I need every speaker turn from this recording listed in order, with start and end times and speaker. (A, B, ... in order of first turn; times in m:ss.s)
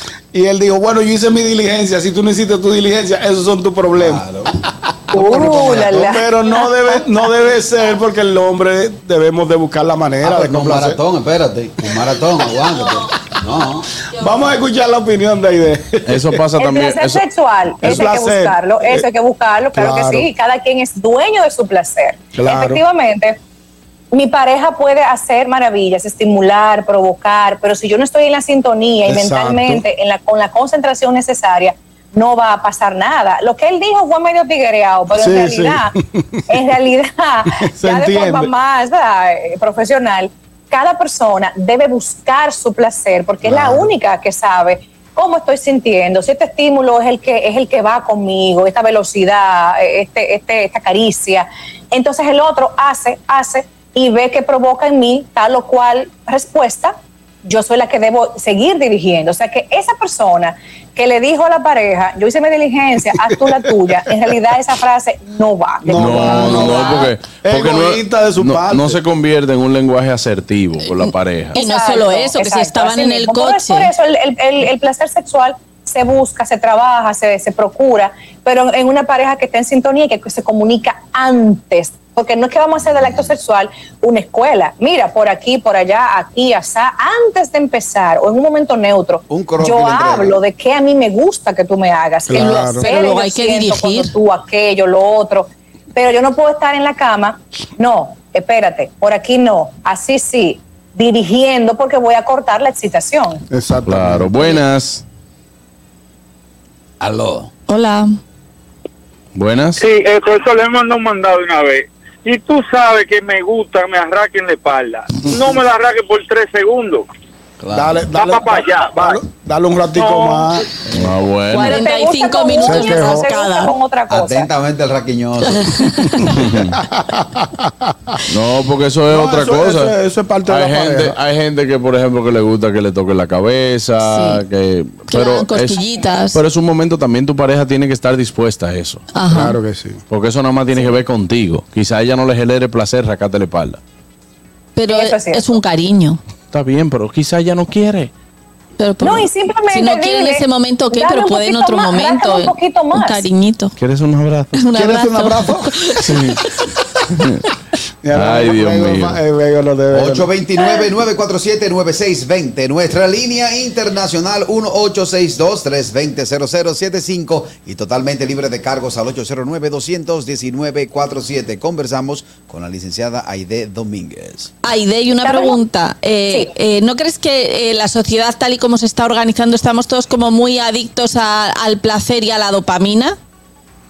0:00.3-0:04.2 A
0:04.0-0:04.5 B
0:05.1-0:07.3 C
0:05.1-0:11.0 A
0:05.2-0:06.0 B
0:10.2-0:13.9 B
0:14.2-0:16.2 A
0:16.1-0:17.2 D
0:16.6-0:23.4 C
0:17.8-0:19.0 A
0:19.7-0:20.3 A
0:22.3-0:22.8 A
0:24.1-0:35.9 C
0:29.0-0:29.8 A
0:35.2-0:36.4 A
0:36.5-1:07.1 C
0:37.6-0:38.5 A
0:43.4-0:43.9 A
1:05.8-1:09.0 A
1:05.9-1:11.6 D
1:11.0-1:13.9 E
1:11.5-1:43.4 C
1:29.3-1:30.4 B
1:32.3-1:33.0 A
1:32.3-1:34.1 E
1:43.5-1:44.6 A
1:43.8-1:45.0 D
1:47.0-1:47.5 B
1:47.7-1:48.2 E
1:49.3-1:49.8 D
1:49.8-1:57.0 F
1:57.6-1:58.0 B
1:57.7-2:00.6 A
1:58.2-1:59.2 F
1:59.9-2:00.5 F
2:00.9-2:01.8 D
2:01.5-2:03.7 E
2:01.5-2:04.5 C
2:02.6-2:03.3 A
2:04.1-2:05.7 B
2:05.5-2:06.3 E
2:06.3-2:06.8 D
2:06.9-2:07.9 A
2:08.3-2:09.9 D
2:09.1-2:11.1 A
2:10.5-2:19.0 D
2:14.0-2:14.4 E
2:15.1-2:16.4 E
2:19.1-2:19.5 E
2:19.3-2:20.0 A
2:20.1-2:23.8 D
2:24.8-2:26.2 E
2:24.9-2:25.5 C
2:26.5-2:28.1 D
2:28.8-2:33.7 E
2:29.0-2:33.2 C
2:33.8-2:35.0 D
2:34.5-2:36.1 E
2:34.9-2:35.6 A
2:36.0-2:36.4 D
2:37.1-2:37.4 D
2:38.0-2:40.3 A
2:38.1-2:39.2 D
2:39.9-2:54.5 B
2:54.6-3:03.2 E
2:55.2-2:55.6 C